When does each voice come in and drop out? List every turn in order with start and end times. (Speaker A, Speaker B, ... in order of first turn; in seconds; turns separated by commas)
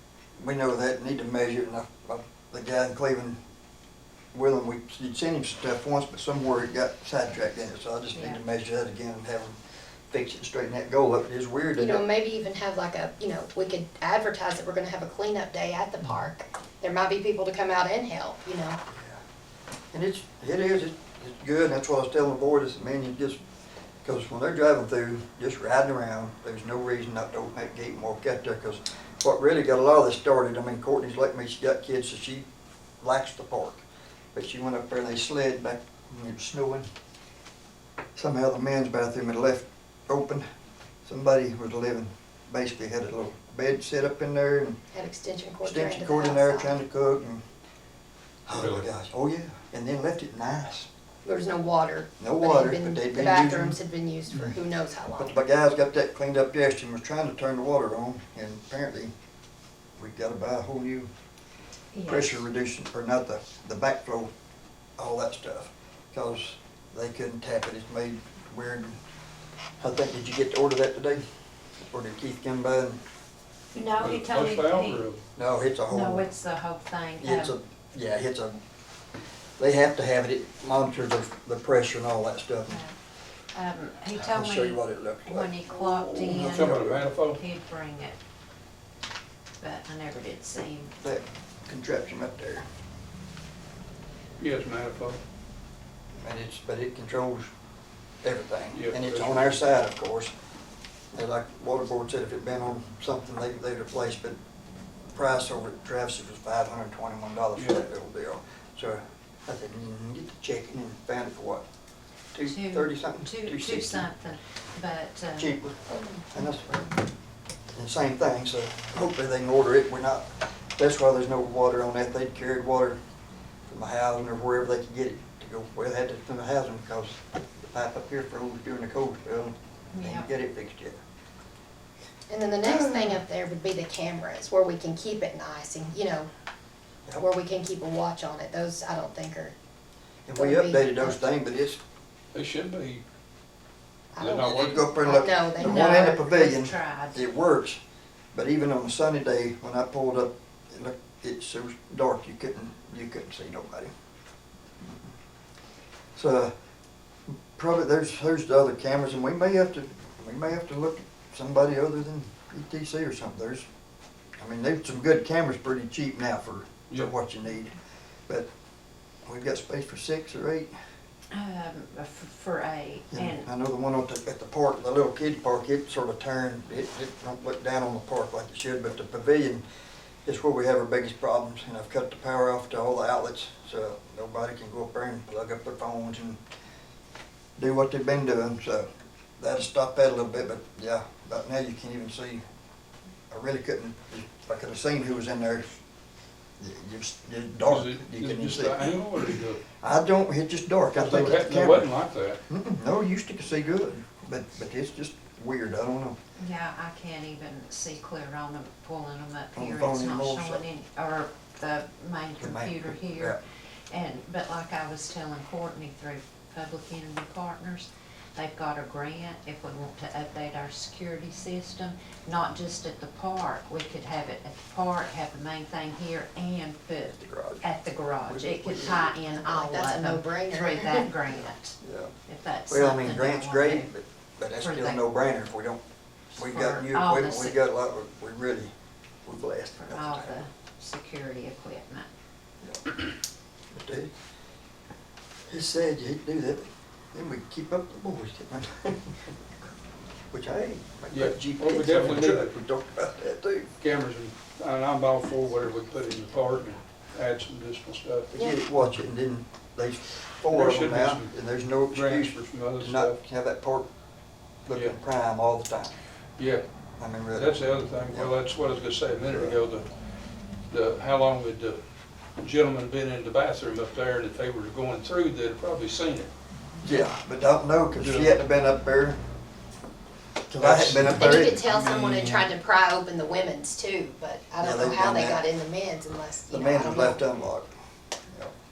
Speaker A: 0.4-3.4, Speaker A: 4.3-9.6, Speaker B: 8.1-8.4, Speaker A: 10.1-12.0, Speaker C: 11.8-18.8, Speaker A: 18.9-19.2, Speaker A: 19.9-23.4, Speaker A: 24.0-32.5, Speaker A: 33.0-36.9, Speaker A: 38.2-40.4, Speaker A: 41.0-44.8, Speaker C: 44.9-46.8, Speaker A: 45.6-47.4, Speaker A: 48.5-50.9, Speaker D: 48.5-48.9, Speaker C: 51.2-55.4, Speaker A: 52.2-53.8, Speaker A: 55.2-59.1, Speaker A: 60.0-61.1, Speaker B: 61.9-62.4, Speaker A: 62.0-64.3, Speaker A: 65.0-69.0, Speaker A: 69.8-71.2, Speaker A: 71.9-73.0, Speaker B: 73.7-75.1, Speaker D: 74.0-75.2, Speaker A: 75.4-76.3, Speaker B: 75.9-77.5, Speaker A: 77.2-78.6, Speaker A: 79.6-82.8, Speaker B: 82.7-83.0, Speaker B: 83.5-88.2, Speaker A: 84.2-86.7, Speaker D: 86.3-87.4, Speaker B: 89.6-91.0, Speaker A: 91.0-92.7, Speaker D: 94.4-95.2, Speaker A: 96.2-97.5, Speaker A: 98.2-100.3, Speaker D: 98.7-99.6, Speaker A: 101.1-104.4, Speaker A: 105.1-111.6, Speaker D: 107.6-107.8, Speaker A: 112.3-114.1, Speaker B: 112.4-115.6, Speaker A: 115.4-116.9, Speaker A: 117.7-123.0, Speaker A: 123.7-127.2, Speaker A: 127.7-131.0, Speaker B: 129.9-130.3, Speaker C: 132.3-136.3, Speaker A: 132.7-132.9, Speaker C: 137.2-139.6, Speaker A: 140.3-141.8, Speaker C: 140.4-141.2, Speaker D: 142.3-143.0, Speaker C: 144.2-146.2, Speaker D: 144.2-144.9, Speaker A: 144.3-147.8, Speaker B: 145.6-147.3, Speaker A: 148.3-153.9, Speaker A: 156.2-156.5, Speaker A: 157.6-163.7, Speaker A: 164.4-167.8, Speaker A: 169.3-170.7, Speaker B: 171.3-173.5, Speaker A: 173.1-179.6, Speaker A: 180.2-186.4, Speaker A: 187.6-188.9, Speaker A: 189.4-192.4, Speaker A: 193.3-195.8, Speaker A: 196.6-199.0, Speaker D: 197.6-199.6, Speaker A: 199.8-201.9, Speaker D: 200.9-202.4, Speaker A: 202.5-206.2, Speaker B: 206.4-213.4, Speaker A: 209.6-210.6, Speaker A: 212.4-213.4, Speaker B: 213.9-233.9, Speaker A: 227.1-227.7, Speaker A: 228.2-229.1, Speaker C: 229.3-231.1, Speaker A: 231.8-232.1, Speaker A: 232.7-235.8, Speaker B: 234.6-235.0, Speaker B: 236.3-237.6, Speaker A: 236.4-238.7, Speaker A: 239.2-240.4, Speaker B: 239.8-242.1, Speaker A: 242.6-242.9, Speaker A: 243.7-244.1, Speaker A: 245.5-249.2, Speaker A: 250.3-253.7, Speaker D: 251.1-252.5, Speaker D: 253.8-258.3, Speaker A: 258.3-263.9, Speaker D: 260.5-263.2, Speaker A: 264.6-265.9, Speaker D: 264.7-265.0, Speaker D: 266.4-266.7, Speaker A: 267.0-267.6, Speaker D: 267.3-269.9, Speaker A: 268.1-268.3, Speaker A: 269.3-269.6, Speaker D: 270.7-271.8, Speaker D: 272.4-276.3, Speaker A: 276.8-279.2, Speaker D: 278.0-278.3, Speaker A: 280.5-281.6, Speaker D: 280.6-282.5, Speaker C: 281.1-287.2, Speaker A: 284.6-285.4, Speaker A: 286.5-287.7